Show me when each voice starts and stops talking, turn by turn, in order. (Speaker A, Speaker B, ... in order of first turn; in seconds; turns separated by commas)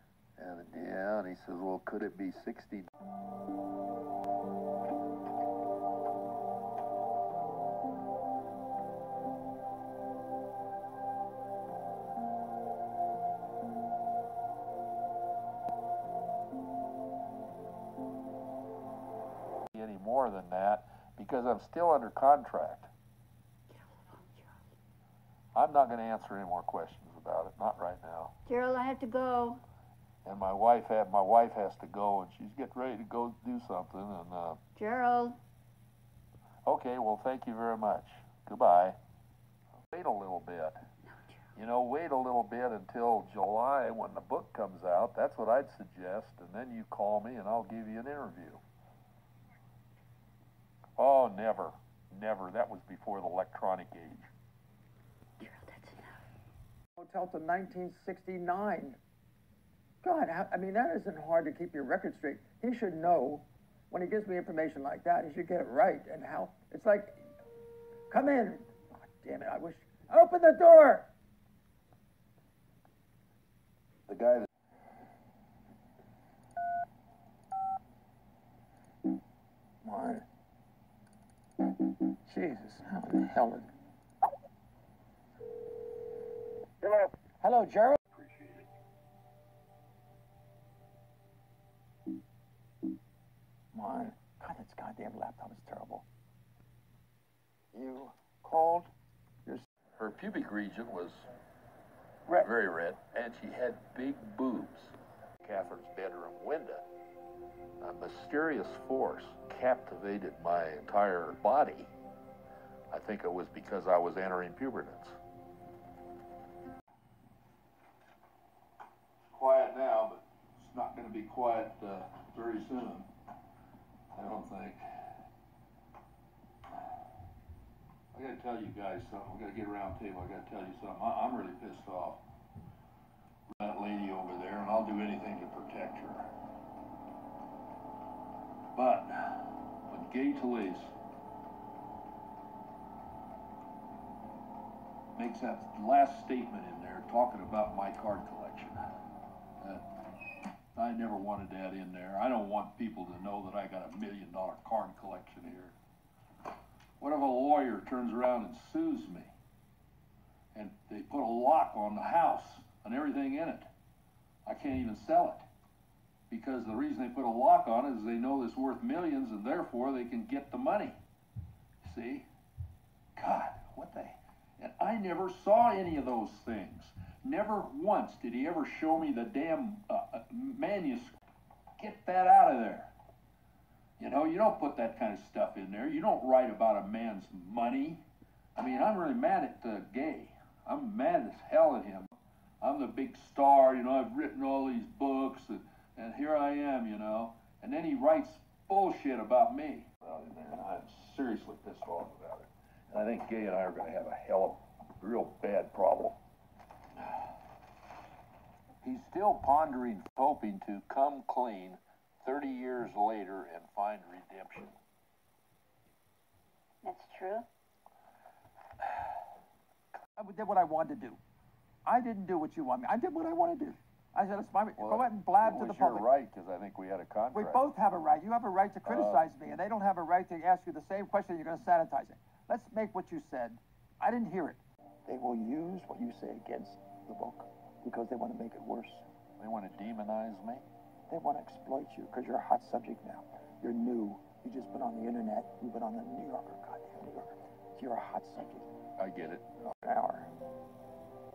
Speaker A: 0.4-2.9, Speaker A: 19.7-22.9, Speaker B: 23.7-24.6, Speaker A: 25.5-28.3, Speaker B: 28.4-29.6, Speaker A: 30.2-34.6, Speaker B: 34.8-35.4, Speaker A: 36.6-39.0, Speaker A: 39.9-40.8, Speaker A: 41.5-48.6, Speaker A: 51.0-54.3, Speaker B: 55.4-56.2, Speaker C: 57.0-59.0, Speaker C: 60.0-67.3, Speaker C: 68.1-71.1, Speaker A: 74.1-74.5, Speaker C: 79.8-80.2, Speaker C: 82.2-83.7, Speaker C: 86.8-88.0, Speaker A: 88.1-88.6, Speaker C: 93.7-96.0, Speaker C: 97.7-98.9, Speaker A: 100.0-101.3, Speaker A: 102.4-106.8, Speaker A: 107.8-111.9, Speaker A: 112.9-115.2, Speaker A: 119.3-123.1, Speaker A: 124.1-124.8, Speaker A: 128.1-132.2, Speaker A: 133.5-136.3, Speaker A: 138.7-140.9, Speaker A: 145.1-148.8, Speaker A: 149.6-150.0, Speaker A: 150.7-155.7, Speaker A: 157.0-159.3, Speaker A: 160.5-163.7, Speaker A: 164.4-165.4, Speaker A: 166.3-171.0, Speaker A: 171.8-172.3, Speaker A: 173.2-181.2, Speaker A: 181.8-182.9, Speaker A: 184.0-188.0, Speaker A: 188.6-192.1, Speaker A: 192.6-206.2, Speaker A: 208.8-214.7, Speaker B: 216.8-217.5, Speaker C: 220.2-221.2, Speaker C: 221.8-226.1, Speaker A: 224.8-227.6, Speaker C: 227.3-239.0, Speaker A: 228.8-229.3, Speaker A: 239.4-240.7, Speaker C: 241.1-248.7, Speaker A: 249.0-249.5, Speaker C: 249.8-250.3